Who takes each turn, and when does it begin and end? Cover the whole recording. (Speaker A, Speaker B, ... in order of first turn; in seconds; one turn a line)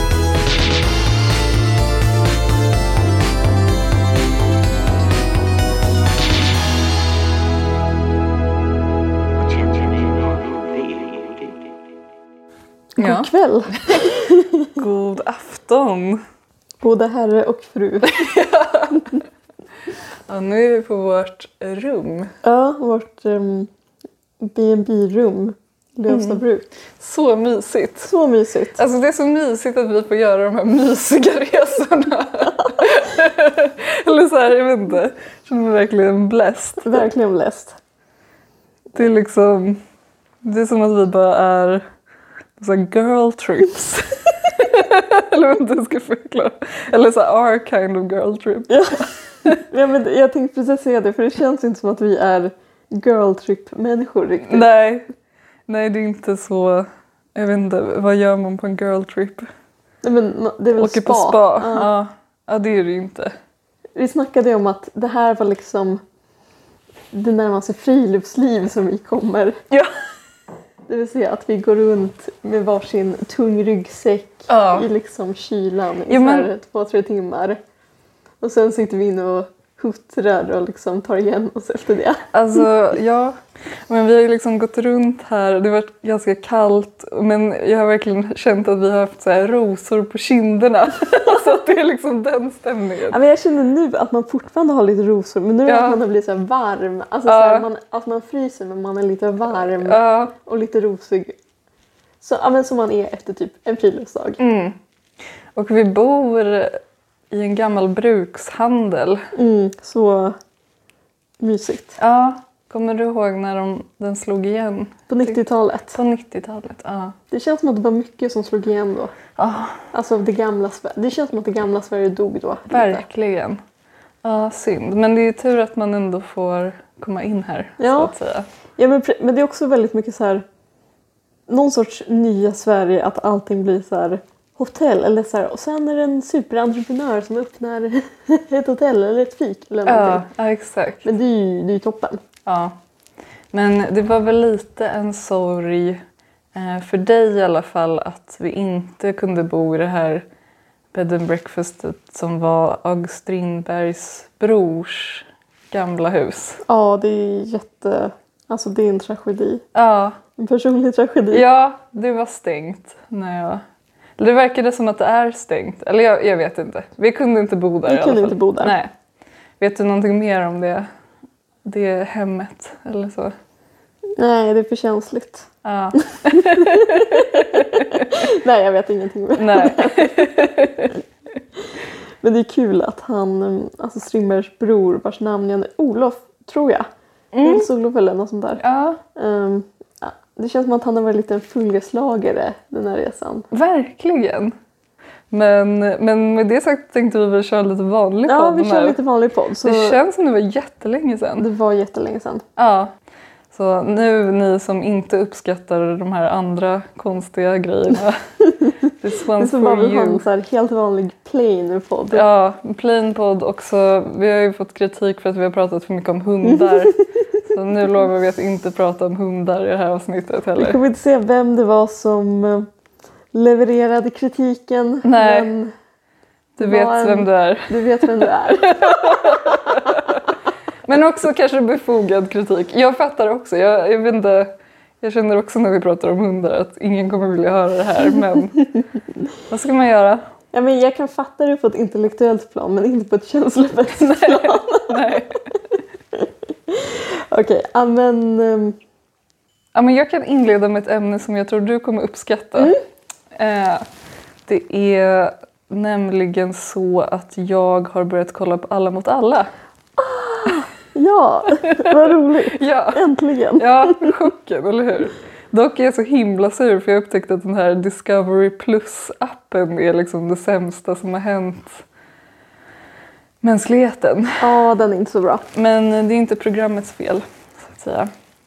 Speaker A: 9.3-11.8
Speaker B: 13.0-14.8
Speaker C: 13.0-13.3
Speaker C: 14.8-16.2
Speaker B: 16.8-18.2
Speaker C: 18.0-19.2
Speaker C: 20.3-22.3
Speaker B: 22.4-23.7
Speaker B: 24.4-26.7
Speaker C: 26.1-26.4
Speaker C: 27.0-28.1
Speaker B: 28.1-28.8
Speaker C: 28.8-37.0
Speaker B: 36.8-37.7
Speaker C: 38.9-39.8
Speaker C: 40.4-41.8
Speaker C: 42.6-48.8
Speaker B: 48.7-54.7
Speaker C: 54.5-55.0
Speaker C: 55.7-59.5
Speaker B: 60.0-61.9
Speaker C: 60.8-63.3
Speaker B: 64.0-66.0
Speaker B: 67.1-69.6
Speaker B: 70.9-77.6
Speaker C: 74.5-74.9
Speaker C: 76.1-76.5
Speaker B: 78.4-82.2
Speaker C: 82.3-83.4
Speaker C: 83.9-93.2
Speaker B: 93.1-101.3
Speaker C: 95.7-96.0
Speaker C: 97.3-97.7
Speaker C: 99.8-100.3
Speaker B: 102.2-104.4
Speaker C: 104.4-104.7
Speaker C: 105.5-106.8
Speaker C: 107.3-109.3
Speaker B: 109.3-110.3
Speaker B: 111.4-112.0
Speaker C: 112.0-117.1
Speaker B: 115.1-116.0
Speaker B: 117.3-119.1
Speaker C: 119.4-119.8
Speaker B: 119.9-123.0
Speaker C: 122.7-123.6
Speaker C: 124.2-128.5
Speaker B: 127.8-128.1
Speaker B: 128.8-130.4
Speaker B: 131.5-140.2
Speaker C: 139.8-141.1
Speaker B: 141.0-142.2
Speaker C: 142.4-142.7
Speaker C: 143.5-146.0
Speaker C: 146.5-150.2
Speaker C: 150.9-156.6
Speaker B: 156.7-159.6
Speaker C: 159.7-160.2
Speaker B: 160.4-161.4
Speaker C: 161.3-163.6
Speaker C: 164.2-168.9
Speaker B: 167.9-168.8
Speaker C: 169.6-170.9
Speaker C: 171.7-173.3
Speaker B: 174.2-175.4
Speaker C: 175.6-178.1
Speaker B: 176.3-180.5
Speaker C: 179.4-181.0
Speaker B: 182.2-186.9
Speaker C: 187.3-187.7
Speaker B: 187.4-188.6
Speaker C: 188.6-189.0
Speaker B: 189.2-193.5
Speaker C: 193.5-194.5
Speaker C: 195.3-199.0
Speaker B: 198.2-200.0
Speaker C: 199.6-201.5
Speaker B: 201.4-202.4
Speaker C: 202.6-202.9
Speaker C: 203.5-208.2
Speaker C: 209.0-210.2
Speaker B: 209.4-212.2
Speaker C: 212.1-217.0
Speaker B: 216.5-216.9
Speaker C: 217.5-220.8
Speaker B: 220.6-222.7
Speaker B: 223.3-225.7
Speaker C: 225.0-225.5
Speaker B: 226.6-229.5
Speaker C: 226.6-230.2
Speaker C: 230.9-238.6
Speaker C: 239.5-240.2
Speaker B: 240.5-245.2
Speaker C: 244.0-245.4
Speaker B: 246.1-248.8
Speaker C: 249.7-252.7
Speaker C: 253.3-253.8
Speaker C: 254.5-259.5
Speaker B: 260.0-263.9
Speaker C: 261.7-263.0
Speaker C: 263.6-271.8
Speaker C: 273.4-274.4
Speaker B: 274.4-275.4
Speaker C: 275.5-278.1